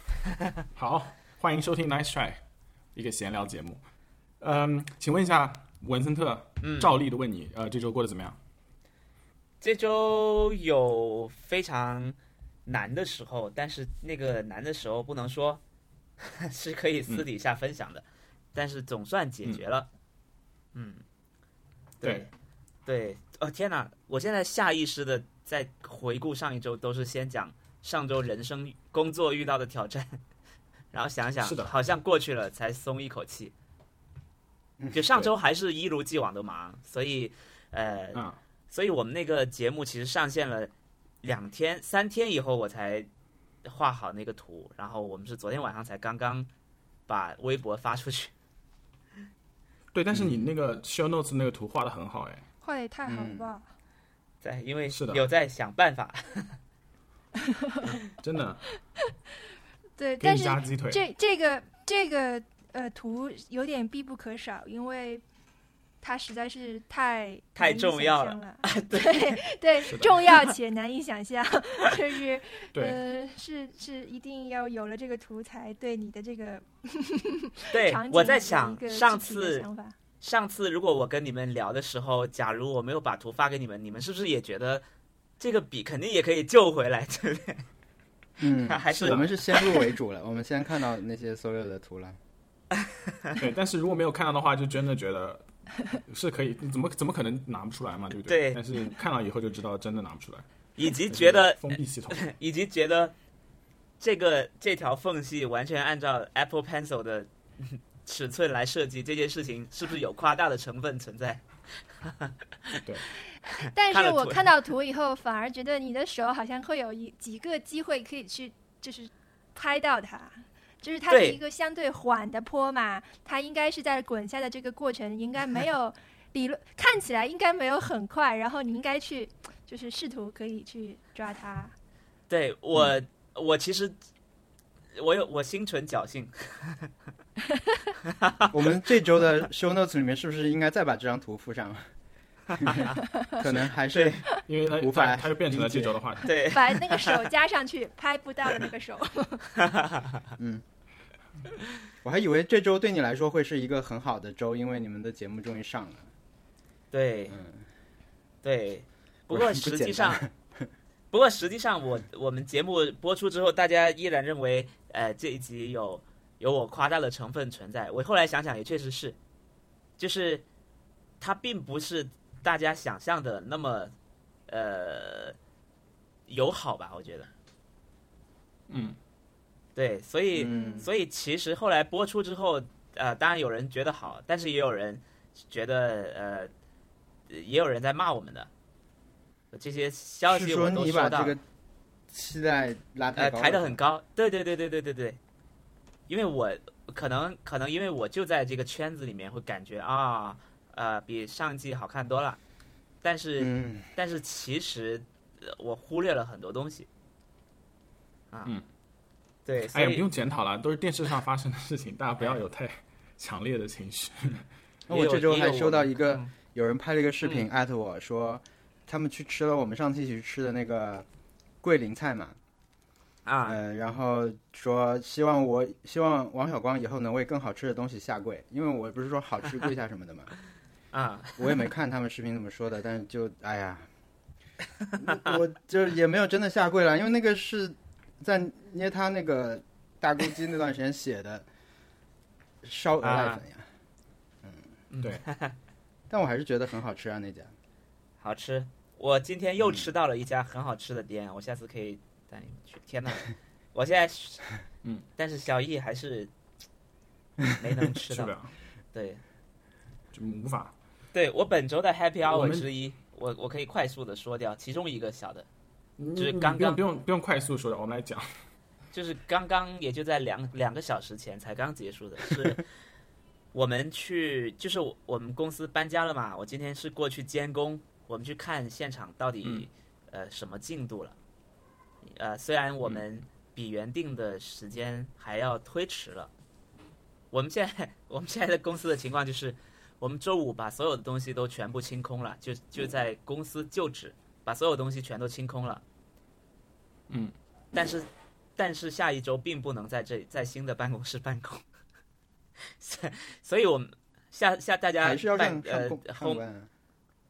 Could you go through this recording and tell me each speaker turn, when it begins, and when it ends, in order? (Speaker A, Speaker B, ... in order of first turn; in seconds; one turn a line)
Speaker A: 0.8-2.4
Speaker A: 3.0-3.8
Speaker A: 4.4-8.4
Speaker B: 6.6-6.9
Speaker B: 9.6-15.6
Speaker B: 16.2-19.9
Speaker B: 20.7-21.0
Speaker B: 22.0-22.3
Speaker B: 22.9-30.2
Speaker B: 30.9-33.5
Speaker A: 31.4-31.7
Speaker B: 34.9-40.7
Speaker B: 41.2-43.1
Speaker B: 43.6-46.5
Speaker B: 47.1-48.3
Speaker A: 49.9-52.4
Speaker C: 52.6-53.7
Speaker D: 53.1-53.5
Speaker B: 54.4-56.6
Speaker A: 54.9-55.2
Speaker C: 57.6-57.9
Speaker A: 58.2-58.7
Speaker C: 60.0-65.2
Speaker A: 60.2-61.0
Speaker C: 66.0-80.0
Speaker B: 67.5-69.4
Speaker A: 69.8-70.3
Speaker A: 72.7-73.0
Speaker B: 77.7-79.7
Speaker B: 80.2-84.8
Speaker B: 85.4-87.6
Speaker D: 88.4-92.2
Speaker B: 88.5-89.9
Speaker A: 88.9-89.3
Speaker B: 92.8-93.4
Speaker A: 93.3-102.2
Speaker B: 98.3-98.6
Speaker B: 100.8-103.1
Speaker B: 104.0-111.4
Speaker B: 112.0-112.8
Speaker B: 113.5-114.4
Speaker C: 113.6-131.7
Speaker B: 121.1-121.4
Speaker B: 132.3-133.9
Speaker B: 134.9-136.9
Speaker B: 138.0-138.5
Speaker D: 138.5-141.8
Speaker D: 142.5-146.0
Speaker B: 142.6-142.9
Speaker B: 143.9-144.2
Speaker A: 144.3-146.3
Speaker B: 146.2-147.2
Speaker C: 146.5-149.5
Speaker B: 149.8-150.2
Speaker D: 150.4-150.6
Speaker D: 152.0-156.1
Speaker B: 156.9-157.4
Speaker D: 157.3-157.6
Speaker B: 158.4-160.2
Speaker D: 159.3-160.6
Speaker B: 161.1-169.2
Speaker B: 170.0-170.4
Speaker B: 171.2-173.9
Speaker B: 174.5-175.3
Speaker B: 176.3-177.3
Speaker A: 178.7-179.0
Speaker B: 179.8-186.5
Speaker D: 180.3-180.9
Speaker C: 180.5-180.8
Speaker B: 187.3-188.5
Speaker B: 189.5-191.4
Speaker D: 190.3-191.4
Speaker D: 192.1-193.8
Speaker B: 193.2-195.2
Speaker B: 196.1-202.4
Speaker B: 203.0-206.9
Speaker D: 203.4-203.9
Speaker B: 209.4-210.0
Speaker A: 209.7-214.4
Speaker D: 214.9-221.1
Speaker B: 214.9-216.3
Speaker D: 221.6-222.3
Speaker B: 223.2-223.6
Speaker D: 223.4-230.3
Speaker B: 230.9-231.6
Speaker D: 231.4-233.9
Speaker D: 235.0-241.5
Speaker D: 242.6-243.7
Speaker B: 243.0-243.4
Speaker B: 244.9-245.5
Speaker D: 246.1-247.5
Speaker B: 248.2-254.4
Speaker B: 255.2-256.3
Speaker B: 257.5-258.3
Speaker A: 258.1-258.5
Speaker B: 258.9-259.2
Speaker A: 260.1-260.7
Speaker B: 261.1-265.5
Speaker A: 262.3-262.7
Speaker A: 266.0-268.3
Speaker B: 266.2-266.8
Speaker B: 268.9-272.6
Speaker B: 273.5-281.2
Speaker B: 282.1-286.3
Speaker B: 287.3-295.8
Speaker B: 297.7-301.6
Speaker B: 302.8-306.4
Speaker D: 305.0-306.7